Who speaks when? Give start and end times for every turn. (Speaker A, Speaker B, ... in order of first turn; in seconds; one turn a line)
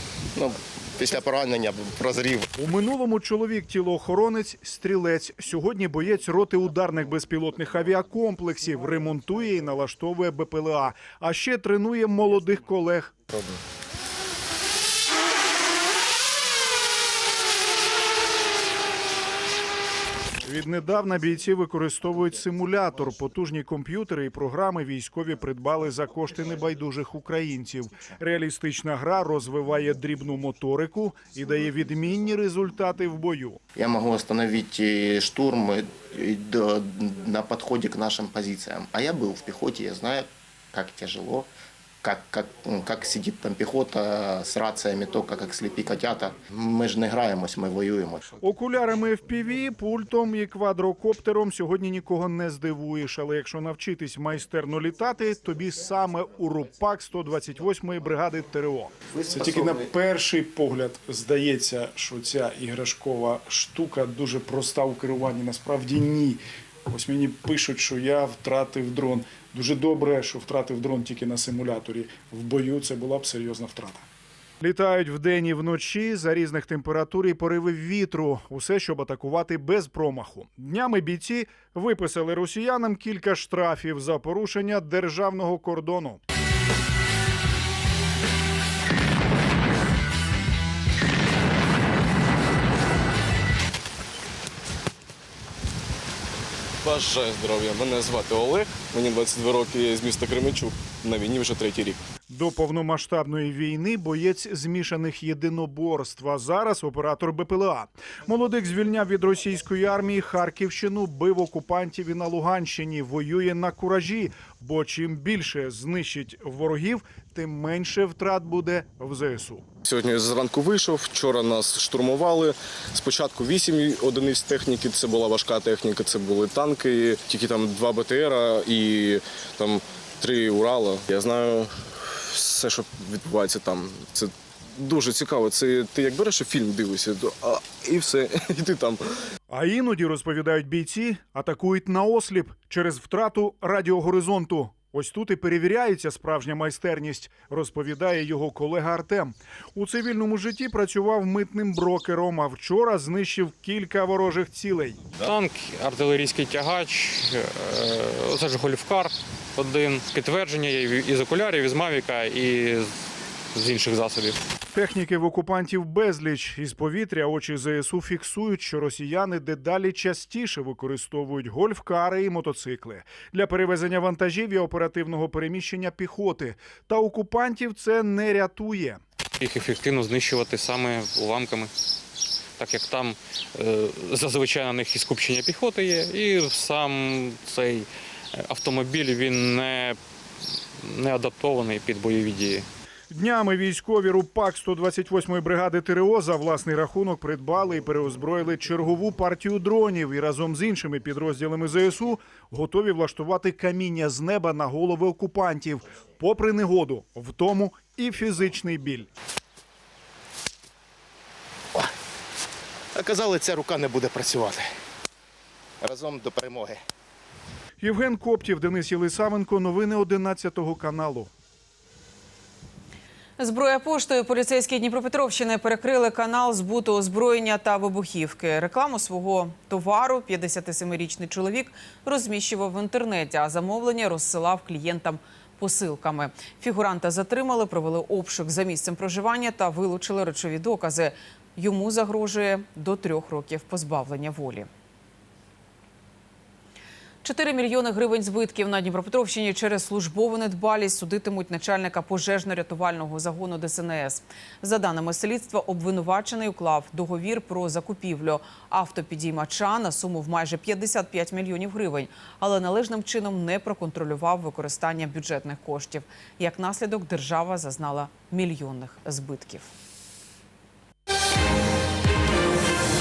Speaker A: 0.3-2.5
Speaker B: 2.6-13.2
Speaker B: 20.4-33.6
Speaker A: 33.8-41.5
Speaker A: 42.0-48.4
Speaker B: 48.4-74.0
Speaker A: 59.1-59.8
Speaker B: 74.6-86.2
Speaker C: 96.8-102.0
Speaker B: 102.3-119.6
Speaker C: 119.9-139.0
Speaker B: 139.5-155.1
Speaker D: 155.2-162.9
Speaker D: 163.5-164.4
Speaker B: 164.7-179.0
Speaker D: 179.4-181.7
Speaker D: 182.6-190.0
Speaker D: 190.8-192.7
Speaker B: 193.1-209.1
Speaker A: 213.0-214.6
Speaker A: 215.8-216.8
Speaker B: 217.8-221.3
Speaker E: 223.4-244.7
Speaker E: 247.2-269.7